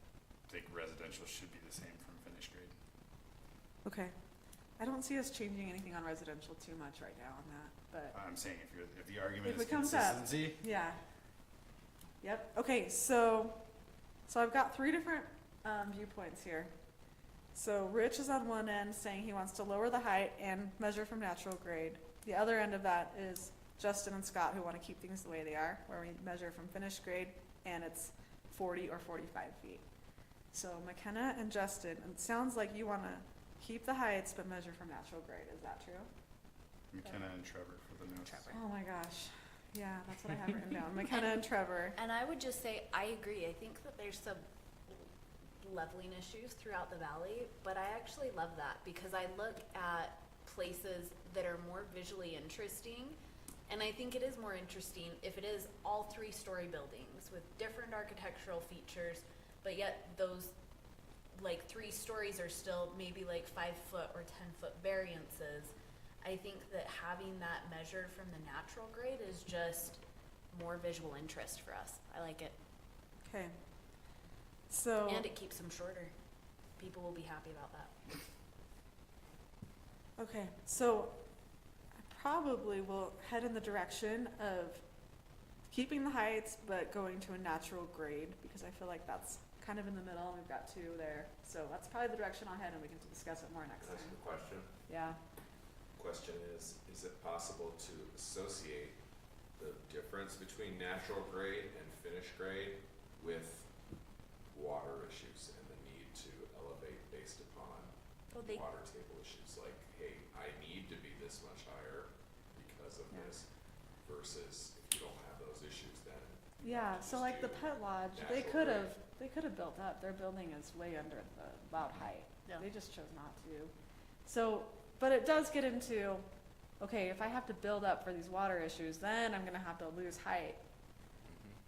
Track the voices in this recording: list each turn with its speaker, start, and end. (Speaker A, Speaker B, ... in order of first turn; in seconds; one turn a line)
Speaker A: 0.5-2.8
Speaker B: 3.9-4.2
Speaker B: 4.8-8.2
Speaker A: 8.1-10.6
Speaker B: 9.4-11.0
Speaker B: 12.2-13.6
Speaker B: 14.3-16.7
Speaker B: 17.5-29.8
Speaker B: 30.5-36.1
Speaker A: 36.9-38.6
Speaker B: 38.5-42.0
Speaker C: 42.0-45.1
Speaker C: 45.6-60.5
Speaker C: 61.3-70.0
Speaker C: 70.5-72.6
Speaker B: 73.2-73.5
Speaker B: 74.7-75.3
Speaker C: 75.1-76.1
Speaker C: 76.8-78.2
Speaker B: 80.2-81.2
Speaker B: 82.0-84.8
Speaker B: 85.7-94.2
Speaker D: 93.8-94.7
Speaker B: 94.9-95.2
Speaker D: 96.0-99.0
Speaker D: 99.6-103.7
Speaker D: 104.5-113.5
Speaker C: 108.3-108.7
Speaker D: 114.0-119.0
Speaker B: 116.6-123.7
Speaker B: 124.2-126.3
Speaker B: 126.8-130.6